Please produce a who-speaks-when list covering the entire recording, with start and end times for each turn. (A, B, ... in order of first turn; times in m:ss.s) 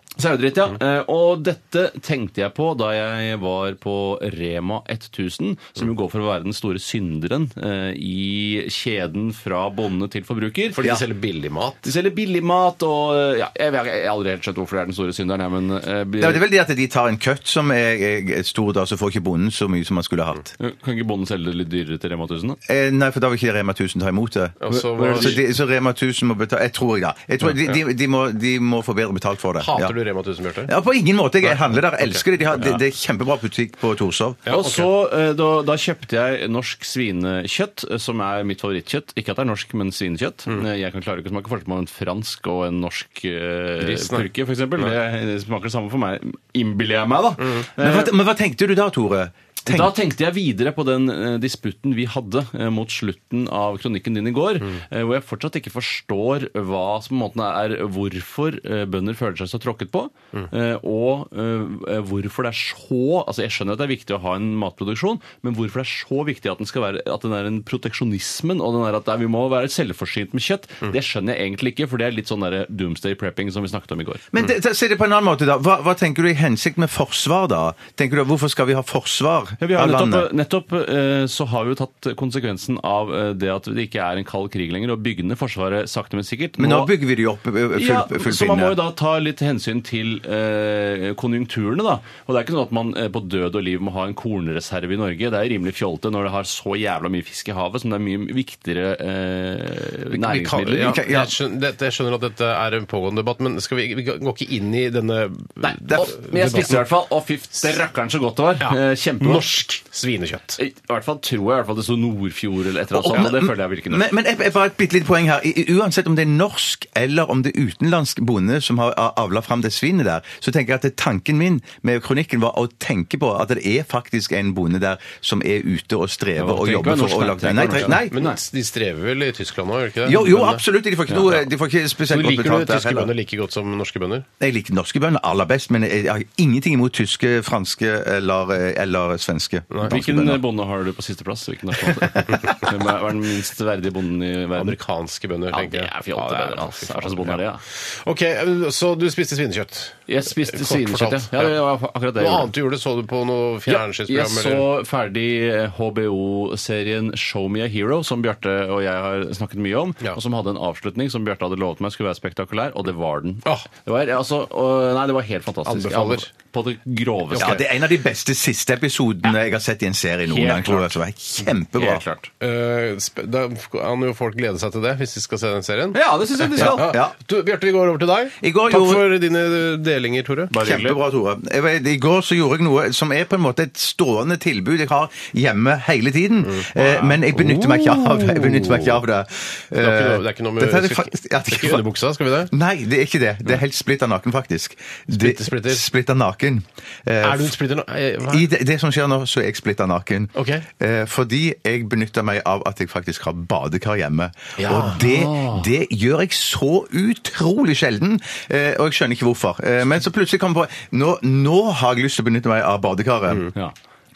0:00.2-0:10.8 A
0:10.7-0:11.9 B
0:11.8-0:16.4 A
0:16.2-0:20.5 C
0:20.6-0:22.6 A
0:22.7-0:30.0 C
0:24.6-0:25.4 B
0:24.7-0:25.4 A
0:29.6-0:30.7 B
0:30.7-0:34.4 C
0:31.4-0:32.2 B
0:34.4-0:34.9 B
0:34.5-0:48.1 A
0:43.8-0:44.3 B
0:47.8-0:50.0 C
0:49.7-1:14.2 A
1:14.3-1:20.3 C
1:19.6-1:26.9 A
1:26.6-1:28.8 C
1:27.8-1:41.0 A
1:40.2-1:46.8 B
1:40.7-1:41.3 C
1:45.9-1:49.5 A
1:48.6-1:50.6 B
1:50.6-1:54.1 A
1:52.9-2:08.1 C
2:06.4-2:08.4 A
2:07.8-2:10.6 B
2:10.0-2:13.1 C
2:11.1-2:11.4 A
2:12.1-2:14.3 B
2:14.4-2:20.4 C
2:19.9-2:24.8 A
2:24.6-2:31.6 B
2:25.5-2:27.6 A
2:30.1-2:32.5 A
2:32.2-2:34.7 B
2:33.7-2:47.6 A
2:45.7-2:46.3 B
2:47.4-2:52.0 C
2:50.3-2:50.9 A
2:51.8-2:52.3 A
2:52.4-3:00.5 B
2:55.9-2:56.9 A
2:56.6-2:57.2 C
2:58.4-2:59.0 C
3:00.5-3:01.0 A
3:00.6-3:11.8 C
3:06.4-3:09.0 B
3:09.8-3:12.5 B
3:12.5-3:17.6 C
3:15.1-3:15.9 B
3:17.2-3:18.5 B
3:18.3-3:33.5 C
3:20.4-3:20.7 B
3:24.6-3:25.0 B
3:24.9-3:25.7 A